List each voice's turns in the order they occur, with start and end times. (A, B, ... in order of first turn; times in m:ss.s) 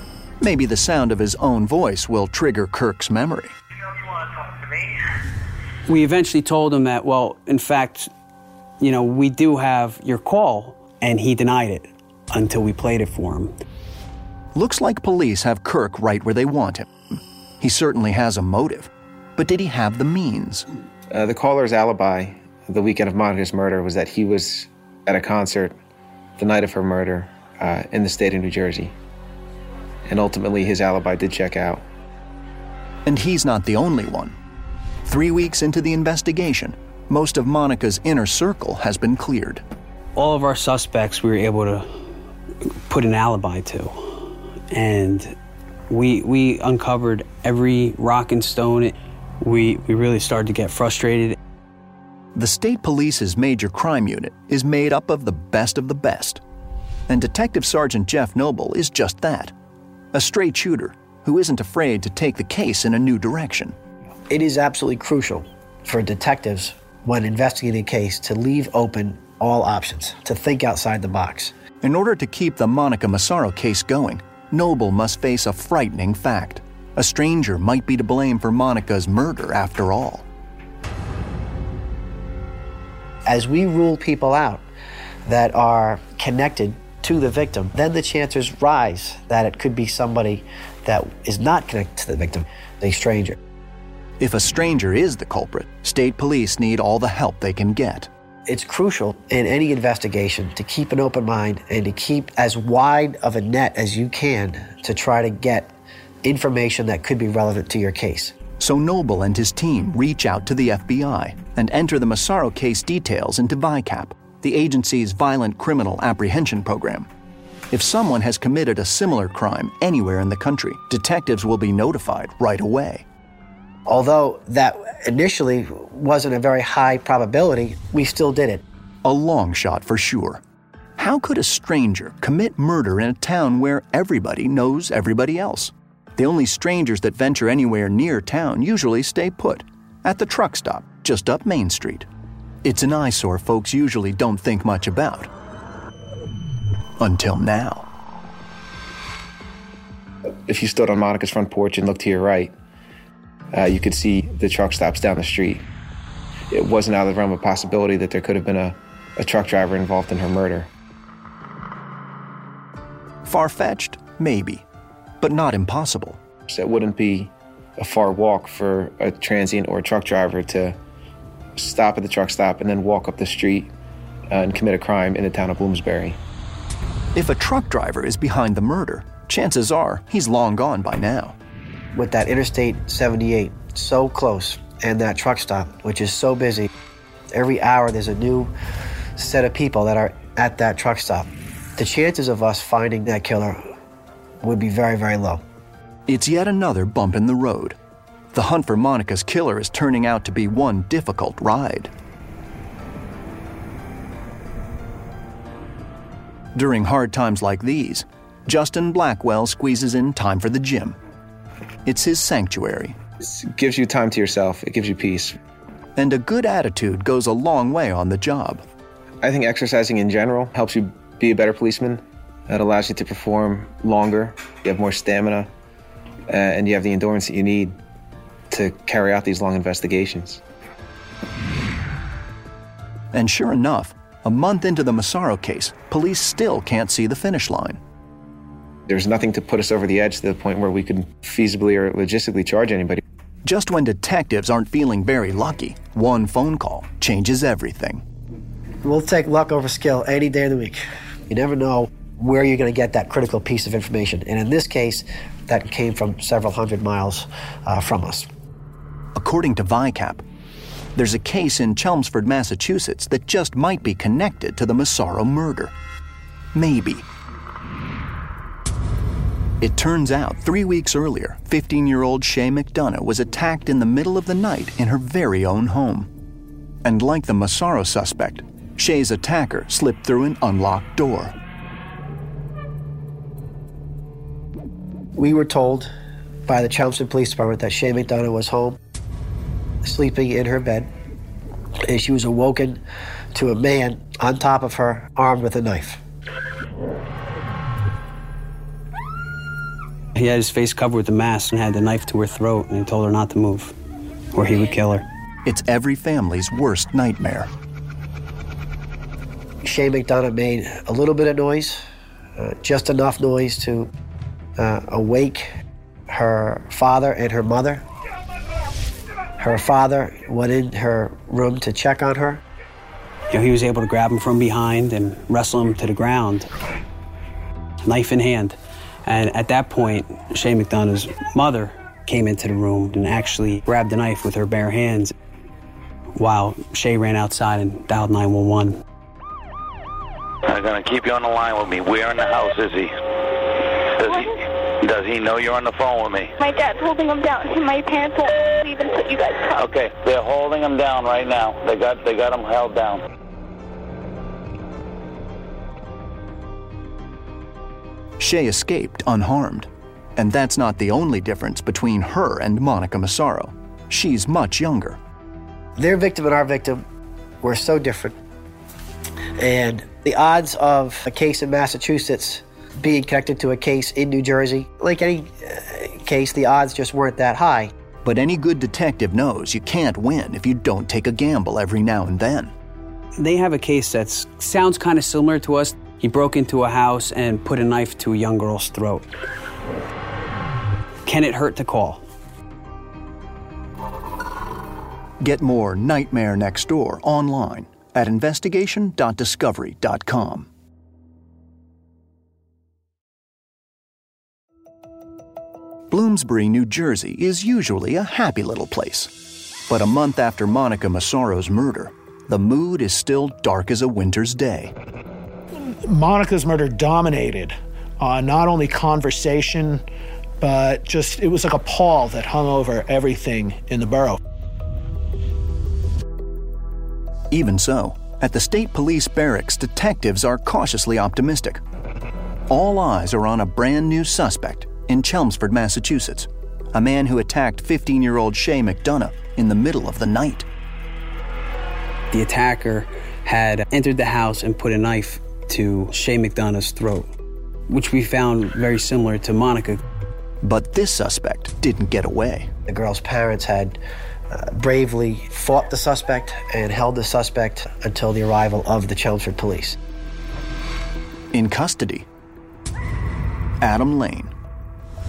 0:00.4-0:03.6 A
0:05.9-0:08.1 B
0:08.8-0:13.5 B
0:14.6-0:20.6 A
0:21.1-0:25.8 C
0:26.4-0:29.0 C
0:30.1-0:31.8 C
0:33.1-0:34.4 A
0:35.0-0:39.6 A
0:40.1-0:41.9 B
0:42.9-0:45.4 B
0:45.9-0:51.4 B
0:52.4-0:56.4 A
0:57.1-0:59.5 A
1:00.1-1:03.8 A
1:04.3-1:11.5 D
1:11.8-1:20.3 A
1:23.3-1:24.6 D
1:25.3-1:33.4 D
1:34.2-1:38.1 A
1:38.5-1:45.7 D
1:46.2-1:48.3 D
1:48.6-1:57.1 A
1:57.7-2:03.1 A
2:03.9-2:08.6 D
2:09.0-2:10.4 A
2:11.0-2:22.1 A
2:22.6-2:25.3 A
2:27.0-2:27.9 A
2:30.5-2:32.5 C
2:33.5-2:35.7 C
2:36.5-2:40.7 C
2:43.3-2:44.6 A
2:45.2-2:46.2 A
2:46.5-2:50.8 C
2:51.6-2:53.7 C
2:54.3-2:56.2 C
2:57.1-3:01.4 A
3:01.9-3:06.7 D
3:07.3-3:08.5 D
3:09.2-3:13.7 D
3:14.4-3:15.4 D
3:16.1-3:17.8 A
3:18.3-3:21.9 A
3:26.5-3:31.0 A
3:31.8-3:33.0 A
3:33.2-3:35.4 C
3:36.0-3:38.6 A
3:39.2-3:45.5 C
3:46.3-3:47.8 C
3:48.5-3:50.4 C
3:53.1-3:57.8 A
3:58.9-4:03.0 C
4:03.4-4:08.0 A
4:08.8-4:18.3 D
4:19.1-4:20.2 A
4:21.0-4:25.7 A
4:26.5-4:27.1 A
4:29.6-4:36.1 A
4:36.8-4:41.4 A
4:45.1-4:45.9 D
4:46.5-4:48.8 D
4:49.8-4:50.9 D
4:51.9-4:52.8 D
4:53.3-4:56.0 D
5:00.2-5:03.7 B
5:04.3-5:05.0 B
5:05.4-5:07.5 A
5:09.6-5:11.8 D
5:12.4-5:13.9 D
5:14.6-5:15.5 D
5:16.1-5:17.8 D
5:19.4-5:22.4 D
5:23.3-5:26.5 B
5:27.8-5:35.1 B
5:36.2-5:38.8 B
5:40.5-5:43.0 E
5:44.0-5:44.3 E
5:44.0-5:44.4 F
5:44.8-5:46.3 E
5:46.4-5:49.6 F
5:49.5-5:53.0 E
5:58.2-6:05.0 A
6:05.8-6:06.8 D
6:07.4-6:08.2 D
6:09.4-6:17.7 D
6:18.0-6:22.5 A
6:23.2-6:29.1 B
6:31.1-6:32.0 B
6:35.2-6:40.5 A
6:45.9-6:49.1 A
6:49.7-6:54.7 A
6:55.8-6:59.8 G
7:00.4-7:04.2 G
7:07.3-7:11.6 A
7:12.5-7:20.5 A
7:22.1-7:27.1 B
7:27.7-7:29.8 B
7:30.4-7:32.5 A
7:32.7-7:33.8 D
7:34.3-7:39.8 D
7:41.3-7:42.1 A
7:43.6-7:44.3 A